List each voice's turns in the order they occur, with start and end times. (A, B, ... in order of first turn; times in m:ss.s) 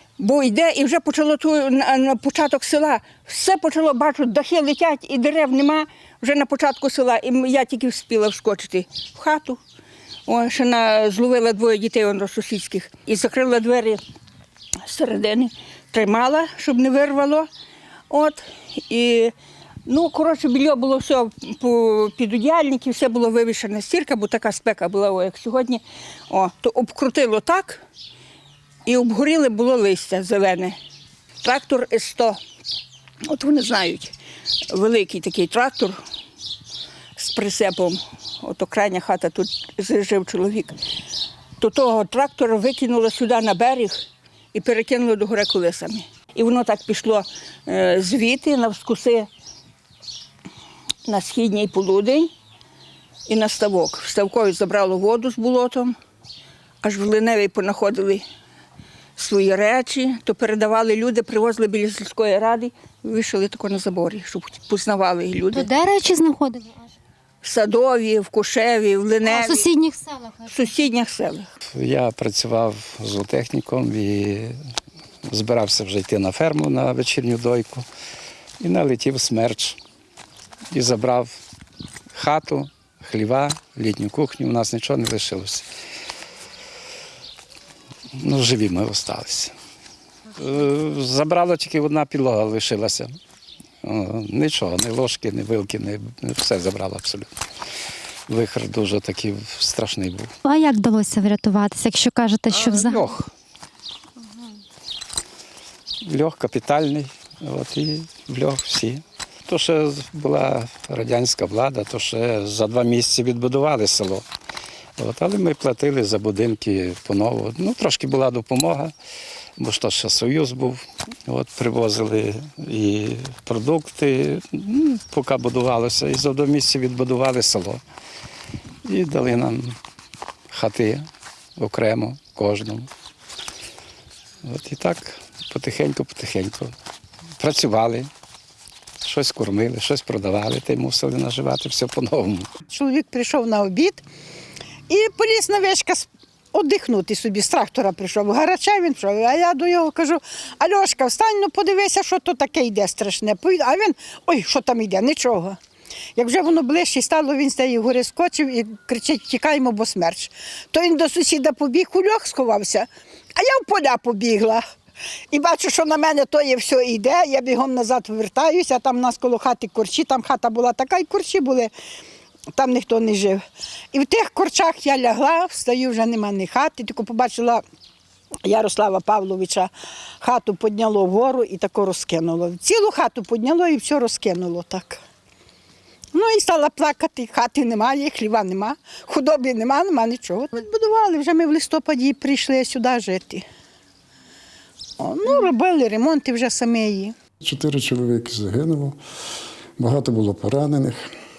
0:00.2-0:09.6 A
0:10.3-0:14.0 A
0:14.9-0:17.5 A
0:18.1-0:18.4 A
0:18.9-0:19.3 A
0:19.9-0:25.8 A
0:26.3-0:27.8 A
0:28.9-0:30.7 A
0:31.4-0:32.4 A
0:33.3-0:34.1 A
0:34.7-0:35.9 A
0:37.2-0:37.9 A
0:38.5-0:40.7 A
0:41.6-0:43.9 A
0:44.6-0:49.2 A
0:51.1-0:52.3 A
0:53.3-0:55.9 A
0:56.9-0:58.2 A
0:59.2-1:05.7 A
1:05.5-1:06.6 B
1:07.5-1:09.6 A
1:09.3-1:10.1 B
1:10.5-1:11.4 A
1:11.8-1:14.6 C
1:15.3-1:17.8 C
1:18.6-1:19.8 C
1:20.7-1:21.3 C
1:22.1-1:25.6 C
1:28.2-1:29.5 C
1:30.4-1:33.1 C
1:33.8-1:37.3 C
1:38.3-1:40.3 C
1:40.4-1:43.0 B
1:42.6-1:43.3 C
1:46.0-1:54.2 C
1:55.0-1:58.9 C
1:59.6-2:07.8 C
2:08.8-2:09.8 C
2:10.5-2:11.1 C
2:11.6-2:12.9 C
2:14.4-2:16.7 C
2:17.4-2:18.1 C
2:19.0-2:22.5 C
2:22.7-2:24.0 D
2:24.9-2:35.5 D
2:36.2-2:42.8 D
2:43.4-2:44.6 D
2:45.3-2:51.7 D
2:52.6-2:53.4 D
2:53.9-2:57.6 D
2:58.4-2:59.7 D
3:00.2-3:05.0 D
3:06.1-3:13.4 D
3:15.0-3:17.1 D
3:17.4-3:19.0 E
3:19.8-3:21.0 E